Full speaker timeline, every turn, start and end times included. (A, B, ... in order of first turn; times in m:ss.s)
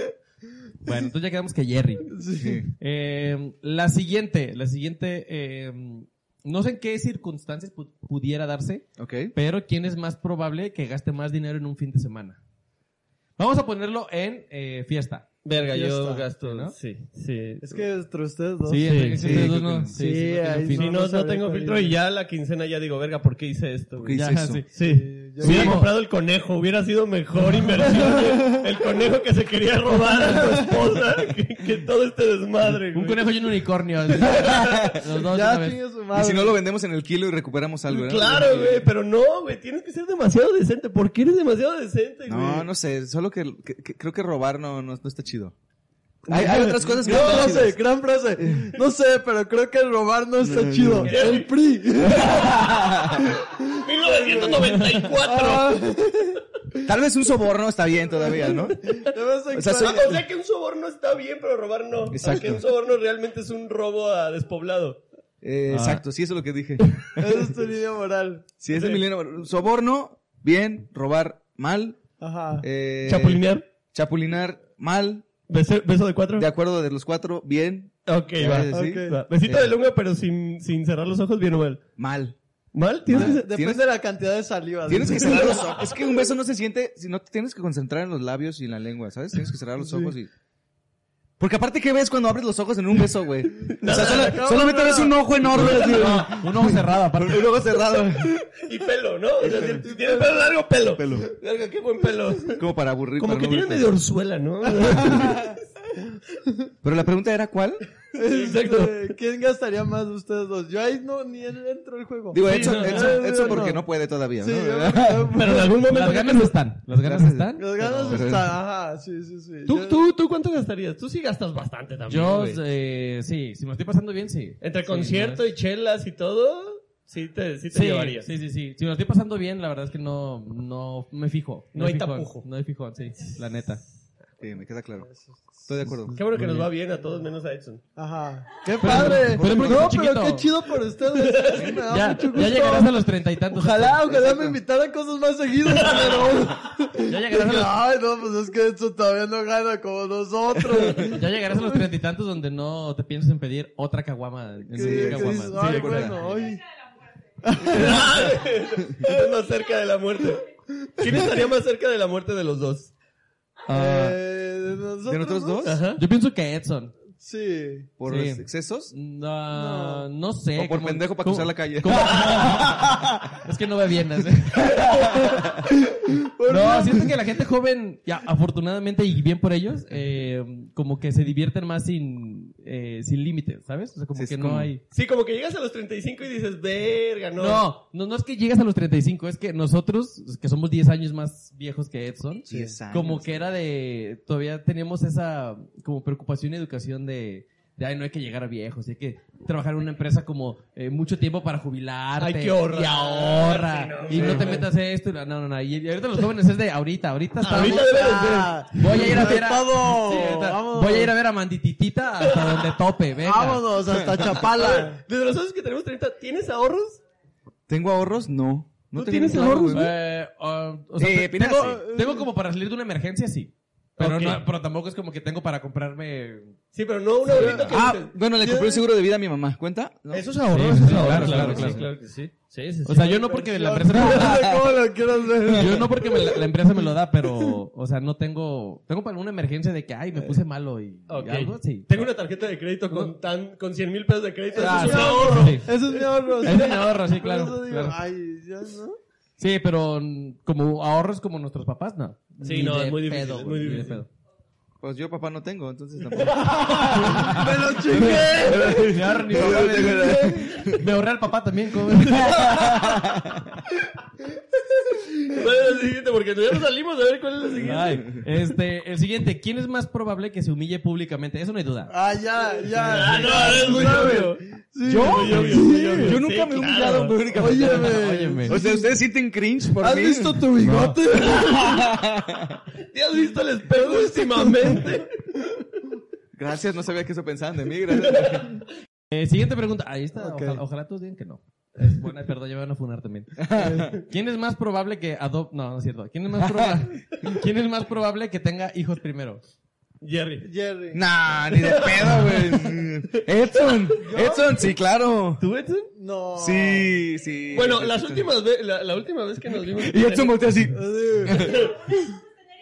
0:00.8-0:02.2 A
0:02.1-0:02.6 B
0:02.4-0:02.7 C
0:02.8-0:12.4 A
0:09.0-0:09.3 C
0:13.4-0:15.3 A
0:15.4-0:17.9 D
0:15.6-0:16.3 B
0:16.4-0:16.8 A
0:17.6-0:22.0 B
0:18.7-0:20.9 A
0:18.8-0:19.5 D
0:19.2-0:20.0 C
0:20.7-0:24.2 D
0:24.0-0:24.6 C
0:24.1-0:24.8 A
0:24.7-0:33.4 D
0:24.8-0:25.8 B
0:25.4-0:25.9 A
0:27.8-0:28.7 B
0:30.1-0:30.8 B
0:32.9-0:35.8 A
0:34.2-0:34.9 D
0:34.4-0:35.0 C
0:35.3-0:36.6 B
0:36.1-0:38.8 C
0:37.9-0:42.7 D
0:42.3-0:45.6 C
0:46.3-0:56.4 B
0:46.3-0:47.8 C
0:47.0-0:47.6 D
0:48.4-0:48.7 C
0:50.4-0:51.1 C
0:51.0-0:51.5 D
0:52.1-0:53.3 C
0:53.6-0:55.9 D
0:56.8-0:59.0 C
0:58.2-0:59.0 D
0:58.9-1:00.2 B
0:59.5-1:00.2 C
0:59.7-1:05.0 D
1:02.1-1:02.6 C
1:05.4-1:07.4 C
1:05.7-1:06.0 A
1:07.2-1:08.5 B
1:08.6-1:12.0 C
1:08.7-1:09.0 D
1:12.2-1:12.7 B
1:12.6-1:15.3 C
1:13.0-1:13.7 D
1:15.5-1:16.5 D
1:16.4-1:19.7 C
1:18.1-1:21.8 D
1:18.7-1:19.2 B
1:22.0-1:22.4 C
1:22.7-1:23.5 D
1:23.1-1:23.8 C
1:23.1-1:25.6 B
1:24.9-1:30.3 C
1:25.1-1:25.9 D
1:29.8-1:30.2 B
1:31.4-1:38.4 C
1:33.7-1:34.6 D
1:33.8-1:36.1 B
1:35.5-1:37.6 A
1:38.5-1:42.6 D
1:39.9-1:40.2 B
1:41.0-1:41.3 C
1:42.6-1:43.9 C
1:43.2-1:45.6 D
1:44.9-1:45.6 B
1:46.8-1:47.8 C
1:48.1-1:55.8 B
1:48.2-1:49.1 D
1:52.3-1:55.4 C
1:52.4-1:53.6 D
1:55.3-1:56.6 D
1:55.8-1:58.3 A
1:56.9-1:58.5 C
1:57.6-2:00.0 B
1:59.7-2:02.6 D
2:02.1-2:05.4 A
2:04.6-2:08.3 D
2:07.7-2:13.8 A
2:11.8-2:12.5 D
2:14.4-2:15.1 C
2:15.0-2:16.0 B
2:15.7-2:16.2 C
2:16.1-2:16.7 A
2:16.2-2:17.8 D
2:18.0-2:31.8 B
2:18.8-2:20.5 A
2:19.4-2:19.8 C
2:21.1-2:21.8 D
2:21.9-2:24.1 A
2:24.1-2:24.6 C
2:25.9-2:26.3 D
2:27.0-2:27.8 A
2:31.0-2:35.9 A
2:34.7-2:36.6 B
2:34.7-2:36.3 C
2:37.4-2:38.4 B
2:37.6-2:40.5 D
2:41.0-2:42.9 D
2:43.7-2:44.2 A
2:43.7-2:45.8 B
2:45.1-2:45.8 C
2:45.6-2:46.0 D
2:46.0-2:46.9 A
2:47.2-2:47.9 B
2:48.0-2:48.9 C
2:48.1-2:54.9 A
2:49.5-2:50.1 B
2:50.6-2:53.2 C
2:54.8-2:55.4 C
2:55.0-2:57.2 B
2:56.5-3:04.8 A
3:04.2-3:04.7 C
3:04.9-3:07.6 D
3:07.4-3:28.2 A
3:12.5-3:13.4 C
3:12.5-3:12.8 B
3:22.2-3:24.6 D
3:24.1-3:24.6 C
3:27.4-3:28.7 D
3:27.5-3:31.2 B
3:28.7-3:33.7 A
3:32.2-3:32.7 D
3:33.2-3:35.0 B
3:33.9-3:34.3 C
3:34.3-3:37.0 D
3:37.7-3:39.9 C
3:38.9-3:39.9 D
3:39.7-3:46.6 A
3:41.0-3:41.8 C
3:41.4-3:42.3 B
3:44.0-3:44.4 D
3:46.7-3:48.2 D
3:47.3-3:48.9 B
3:47.4-3:51.8 C
3:50.1-3:53.5 D
3:50.5-3:51.9 A
3:52.9-3:54.5 A
3:53.0-3:56.7 B
3:54.0-3:54.8 C
3:55.5-4:02.1 A
3:57.2-3:57.6 B
4:01.1-4:05.9 D
4:04.6-4:09.0 B
4:04.6-4:05.7 A
4:06.4-4:08.0 A
4:09.4-4:14.1 A
4:12.4-4:14.1 D
4:14.8-4:20.8 C
4:16.2-4:16.6 D
4:16.9-4:20.4 B
4:17.0-4:17.4 A
4:18.1-4:22.6 A
4:22.2-4:23.4 C
4:25.2-4:28.2 D
4:27.6-4:31.9 A
4:31.9-4:36.2 B
4:32.8-4:37.2 D
4:33.8-4:34.1 C
4:34.9-4:40.5 C
4:37.4-4:38.9 B
4:37.4-4:38.6 A
4:39.8-4:42.0 B
4:40.7-4:40.9 A
4:41.2-4:42.6 C
4:42.9-4:45.5 D
4:43.7-4:45.0 B
4:46.4-4:48.7 C
4:49.1-4:59.4 A
4:50.2-4:50.6 B
4:53.4-4:54.0 C
4:53.5-4:53.9 B
4:56.4-4:57.0 C
5:00.0-5:00.5 D
5:00.4-5:01.1 B
5:00.9-5:05.4 C
5:01.5-5:02.8 D
5:04.0-5:04.6 B
5:05.4-5:05.9 D
5:05.9-5:06.9 B
5:06.4-5:08.3 C
5:07.5-5:10.5 D
5:09.7-5:11.7 C
5:10.7-5:11.6 B
5:11.3-5:11.8 D